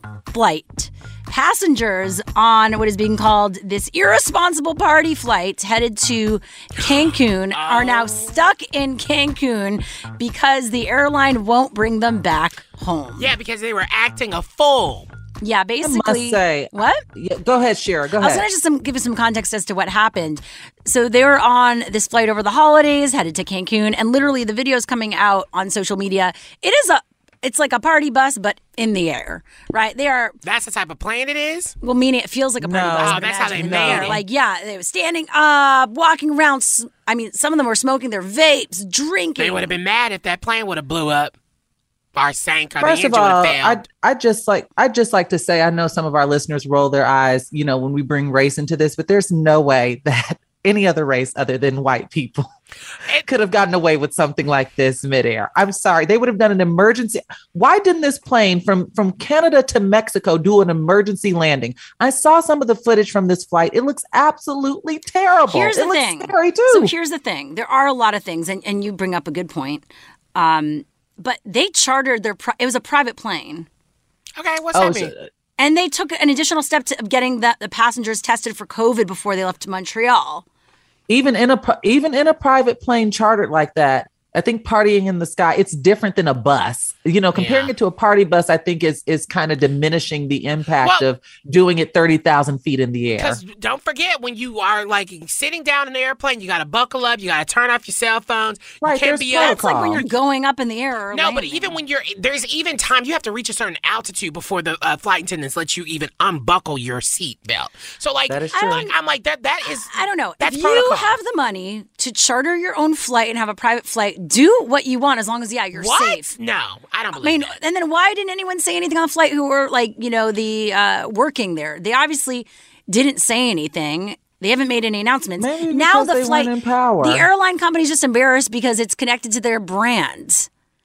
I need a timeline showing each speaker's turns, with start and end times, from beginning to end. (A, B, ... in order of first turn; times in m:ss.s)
0:00.3-0:13.3 A
0:07.5-0:08.3 B
0:13.2-0:15.1 B
0:15.4-0:17.0 A
0:15.8-0:18.4 C
0:18.2-0:30.3 A
0:30.4-0:31.7 B
0:31.8-0:39.7 A
0:32.6-0:34.2 C
0:33.0-0:34.2 B
0:39.4-0:41.3 B
0:42.1-0:43.8 B
0:42.8-0:52.5 C
0:53.2-1:06.9 C
1:05.5-1:13.7 A
1:14.4-1:15.1 B
1:14.7-1:15.3 C
1:15.6-1:20.4 A
1:21.1-1:33.4 C
1:27.3-1:27.7 B
1:33.2-1:39.9 B
1:38.8-1:40.0 C
1:39.3-1:41.8 A
1:41.1-1:51.1 B
1:48.3-1:48.9 C
1:48.5-1:48.9 A
1:49.9-1:56.3 A
1:55.7-1:57.5 B
1:57.2-2:10.5 A
2:05.4-2:07.3 C